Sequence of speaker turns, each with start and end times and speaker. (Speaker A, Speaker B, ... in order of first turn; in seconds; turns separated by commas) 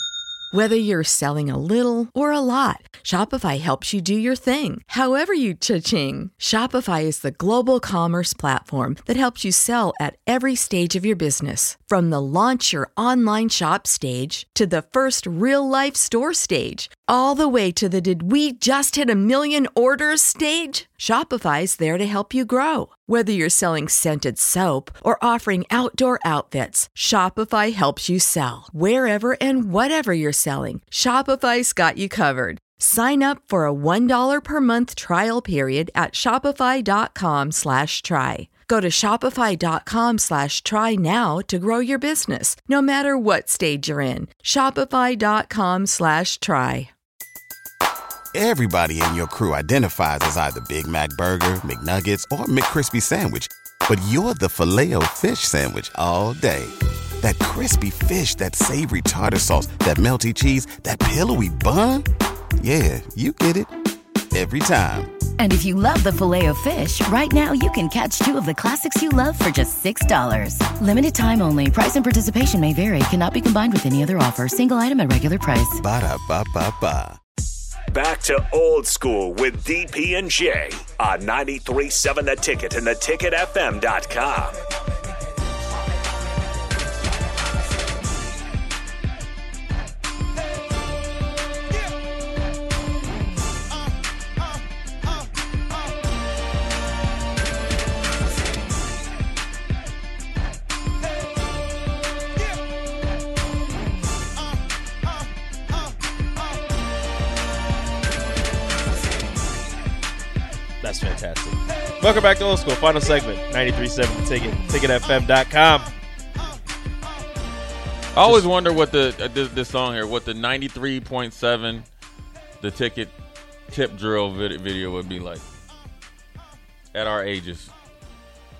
Speaker A: 0.5-46.9, Speaker B: 48.3-62.0, Speaker B: 62.6-63.7, Speaker B: 64.3-65.1, Speaker C: 65.4-75.8, Speaker B: 75.8-77.2, Speaker D: 77.9-84.6, Speaker E: 110.8-115.9, Speaker F: 118.1-121.8, Speaker F: 122.6-123.1, Speaker F: 123.7-125.4, Speaker F: 126.9-127.7